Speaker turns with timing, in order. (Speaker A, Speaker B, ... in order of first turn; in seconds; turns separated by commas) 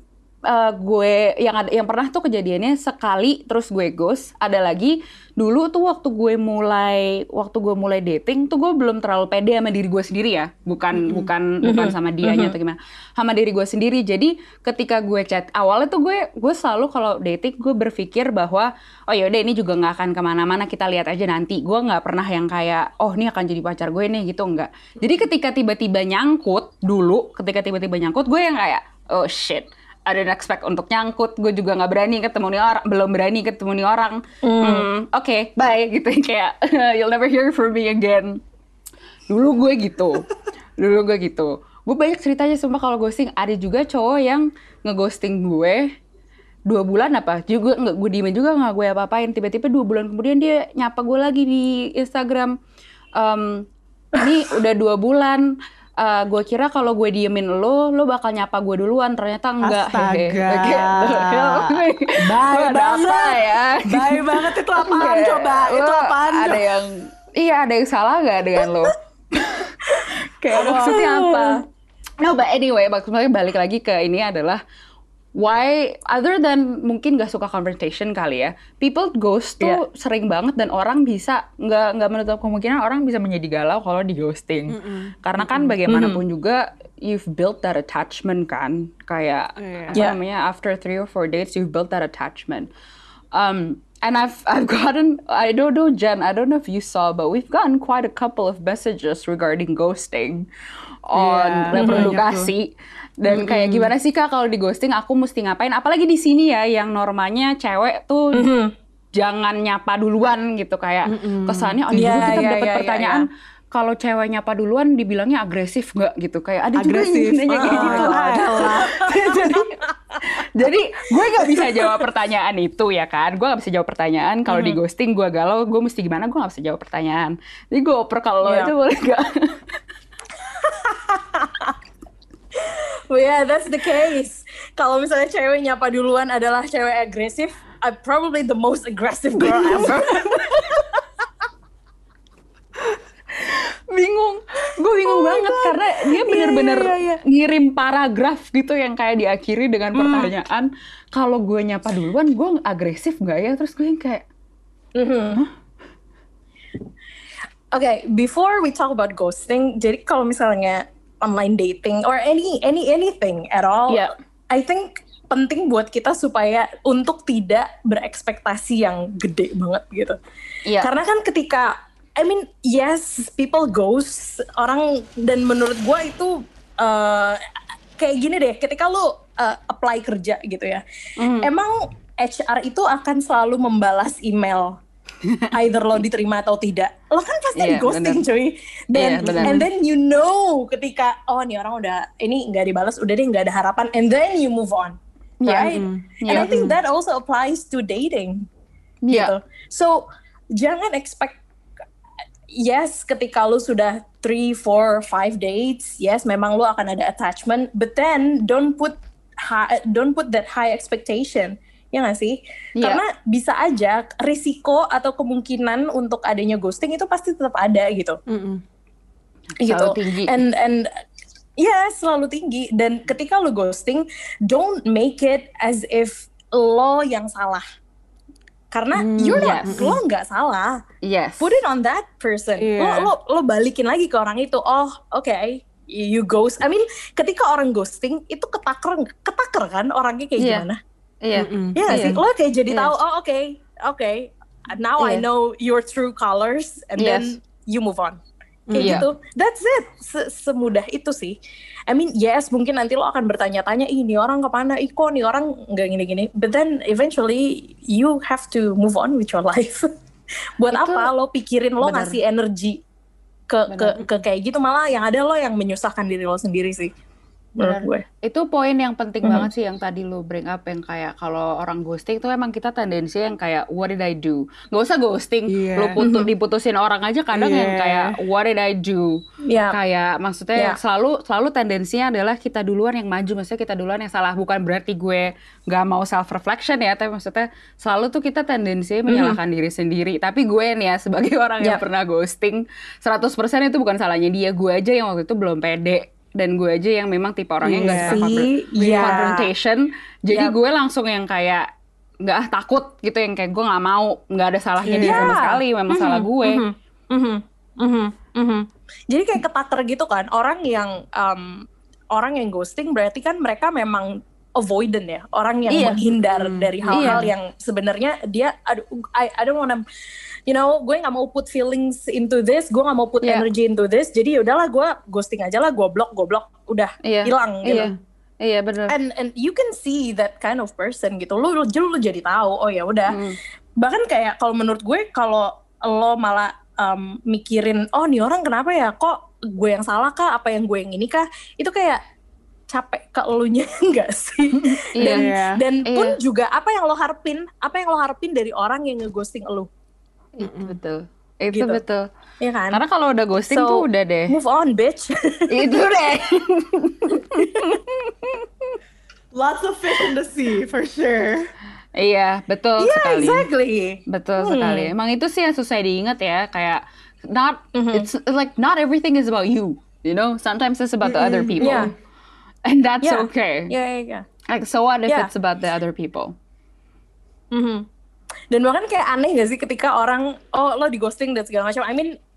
Speaker A: 0.5-38.4, Speaker B: 11.0-11.3, Speaker C: 11.6-12.6, Speaker C: 34.4-34.9, Speaker A: 39.3-45.9, Speaker A: 46.7-52.5, Speaker A: 53.2-69.7, Speaker B: 59.6-66.7, Speaker C: 68.6-68.9, Speaker C: 69.8-71.5, Speaker A: 70.3-71.6, Speaker B: 70.5-71.1, Speaker A: 72.2-74.6, Speaker A: 75.4-92.7, Speaker B: 84.7-85.8, Speaker C: 85.9-86.2, Speaker B: 89.6-90.0, Speaker A: 93.3-100.5, Speaker A: 101.1-108.5, Speaker B: 101.2-102.5, Speaker C: 101.7-102.1, Speaker B: 103.3-103.9, Speaker C: 108.3-108.7, Speaker A: 109.2-129.6, Speaker B: 111.1-112.4, Speaker C: 112.0-113.3, Speaker B: 116.8-119.6, Speaker C: 117.5-120.2, Speaker C: 121.2-122.0, Speaker B: 124.5-124.8, Speaker C: 128.4-128.7, Speaker C: 130.4-131.8, Speaker C: 132.6-141.0, Speaker A: 139.6-140.2, Speaker A: 143.4-154.2, Speaker C: 145.1-147.2, Speaker C: 149.9-150.3, Speaker C: 154.9-155.5, Speaker C: 157.7-170.2, Speaker C: 170.8-177.4, Speaker C: 178.0-180.8, Speaker A: 181.2-181.5, Speaker C: 181.4-184.8, Speaker A: 185.2-185.5, Speaker C: 185.5-198.5, Speaker A: 187.6-188.2, Speaker A: 188.9-189.6, Speaker B: 189.2-189.7, Speaker A: 195.4-196.6, Speaker B: 195.7-196.8, Speaker A: 199.0-199.3, Speaker C: 199.1-201.4, Speaker C: 202.5-218.2, Speaker A: 212.8-213.0, Speaker B: 218.3-218.6, Speaker C: 219.6-220.9, Speaker A: 219.6-220.4, Speaker C: 221.6-227.6, Speaker C: 228.7-230.8, Speaker B: 228.9-230.0, Speaker A: 229.3-230.0, Speaker A: 231.0-231.6, Speaker C: 231.4-240.8, Speaker B: 232.6-233.1, Speaker A: 240.4-240.7, Speaker A: 241.2-242.9, Speaker B: 241.3-241.9, Speaker C: 241.8-248.2, Speaker A: 245.0-245.2, Speaker A: 247.0-247.3, Speaker B: 248.7-249.1, Speaker C: 248.8-251.4, Speaker A: 248.8-249.1, Speaker C: 251.9-259.9, Speaker C: 260.6-262.8, Speaker A: 260.7-261.1, Speaker A: 261.8-262.2, Speaker C: 263.5-266.9, Speaker A: 263.7-264.0, Speaker C: 267.6-268.0, Speaker A: 267.6-279.2, Speaker C: 269.2-269.5, Speaker B: 275.5-276.0, Speaker C: 276.0-276.3, Speaker B: 277.3-278.2, Speaker C: 279.5-279.8, Speaker A: 279.7-301.7, Speaker C: 289.1-289.4, Speaker B: 297.6-298.2, Speaker C: 297.9-299.5, Speaker B: 298.8-299.2, Speaker C: 300.3-300.6, Speaker A: 302.2-306.6, Speaker B: 304.9-305.4, Speaker C: 304.9-319.8, Speaker A: 315.7-316.0, Speaker B: 316.3-317.3, Speaker A: 316.9-317.3, Speaker C: 320.5-327.9, Speaker A: 323.2-323.5, Speaker A: 327.1-328.9, Speaker C: 328.9-333.2, Speaker A: 333.1-333.4, Speaker C: 333.8-342.0, Speaker C: 342.7-349.7, Speaker A: 344.8-345.3, Speaker B: 345.0-345.6, Speaker A: 345.9-346.2, Speaker A: 350.4-352.1, Speaker B: 350.4-350.8, Speaker C: 351.5-351.8, Speaker C: 352.4-352.8, Speaker A: 352.7-354.4, Speaker C: 353.5-355.9, Speaker A: 355.5-358.5, Speaker C: 357.4-357.8, Speaker B: 359.3-361.5, Speaker A: 362.0-363.5, Speaker C: 362.8-364.9, Speaker A: 364.1-371.9, Speaker C: 367.8-368.1, Speaker B: 371.0-371.9, Speaker C: 371.6-371.9, Speaker A: 372.7-373.7, Speaker C: 373.0-374.3, Speaker A: 374.5-376.3, Speaker C: 377.5-377.9, Speaker C: 378.5-382.1